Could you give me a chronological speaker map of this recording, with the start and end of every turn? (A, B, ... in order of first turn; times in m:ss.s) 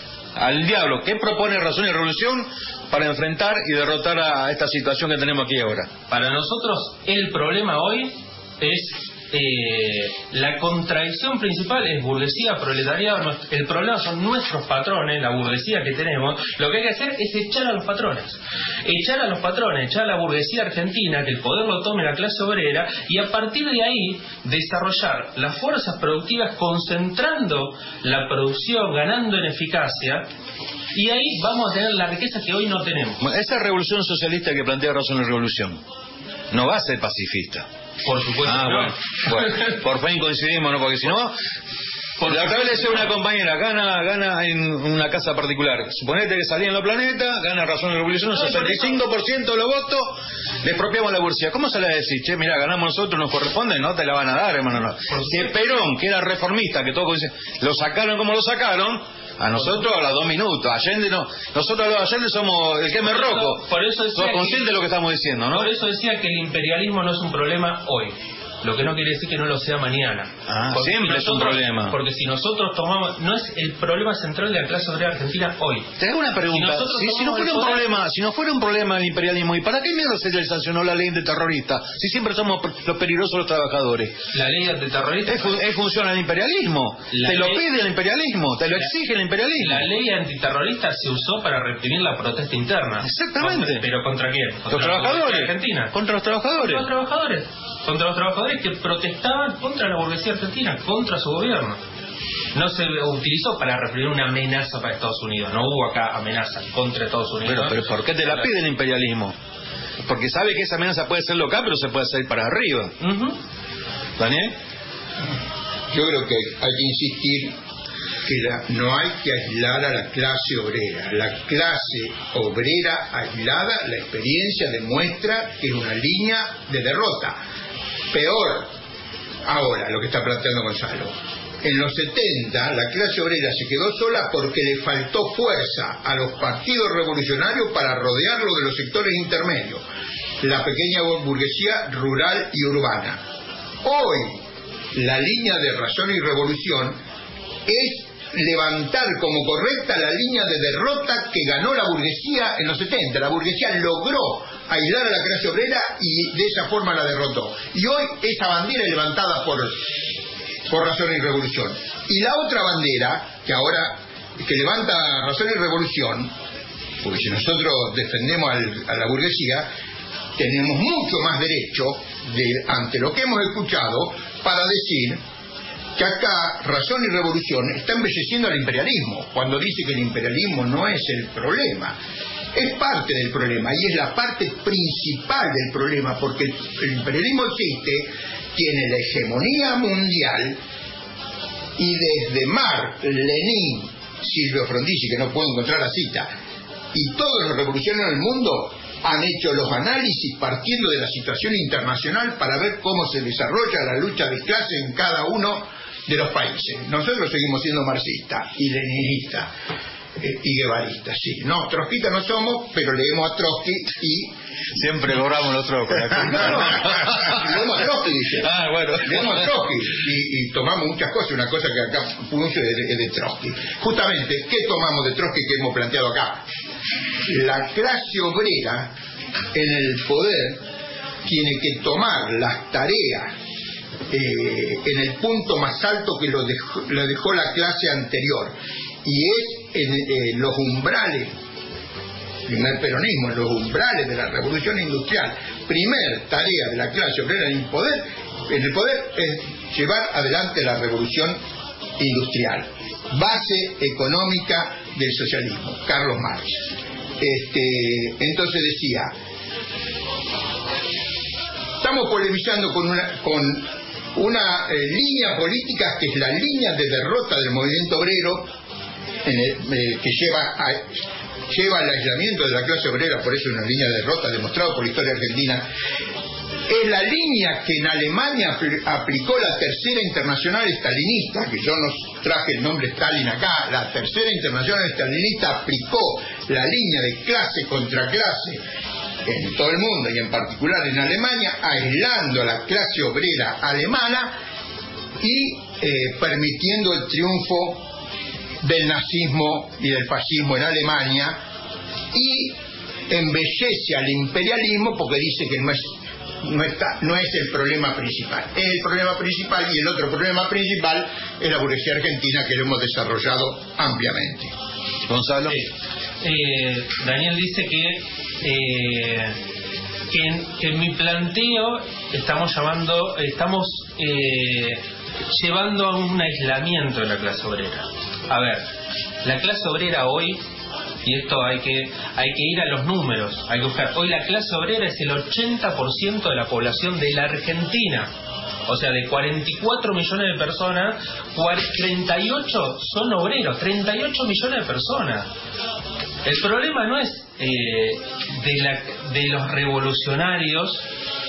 0:00.4-0:05.9 A
0:06.1-0:30.2 B
0:30.9-0:33.2 B
0:33.2-0:35.8 A
0:36.5-0:37.6 A
0:38.0-0:39.7 B
0:38.4-0:41.4 A
0:42.2-0:43.0 B
0:42.2-1:05.7 A
0:48.3-0:49.0 B
0:55.1-0:55.5 B
1:03.0-1:04.7 B
1:05.5-1:15.9 B
1:10.5-1:12.0 A
1:16.0-1:24.2 A
1:16.5-1:17.8 B
1:24.3-1:25.6 B
1:25.3-1:29.8 A
1:27.1-1:27.6 B
1:29.6-1:35.9 B
1:33.0-1:33.9 A
1:34.7-1:36.9 A
1:36.6-1:41.8 B
1:42.5-1:48.5 B
1:47.4-1:49.4 A
1:50.0-1:52.9 A
1:53.0-1:53.4 B
1:54.2-1:54.5 A
1:55.9-1:57.6 C
1:58.2-2:07.4 C
2:08.1-2:08.7 C
2:09.4-2:19.8 C
2:20.4-2:23.2 C
2:23.8-2:24.4 C
2:24.9-2:27.0 C
2:27.7-2:39.9 C
2:40.7-2:46.3 C
2:47.0-2:49.7 C
2:50.4-2:55.2 C
2:56.0-3:02.0 C
3:02.5-3:10.6 C
3:11.8-3:16.3 C
3:16.9-3:29.5 C
3:30.2-3:34.3 C
3:34.7-3:37.8 A
3:36.2-3:46.4 C
3:38.4-3:39.5 A
3:47.3-3:48.9 C
3:49.5-3:50.6 C
3:51.2-3:53.3 C
3:54.1-4:01.3 C
4:02.5-4:11.4 C
4:12.0-4:16.7 C
4:17.2-4:19.1 C
4:21.8-4:28.5 C
4:29.2-4:30.9 C
4:31.5-4:35.7 C
4:36.7-4:48.6 C
4:49.2-4:54.3 C
4:55.2-4:57.9 C
4:58.6-5:01.4 C
5:02.1-5:02.6 C
5:03.1-5:14.5 C
5:15.1-5:15.6 A
5:15.5-5:19.4 B
5:20.1-5:28.6 B
5:29.2-5:30.4 B
5:31.0-5:38.1 B
5:38.7-5:45.3 B
5:46.2-5:50.8 B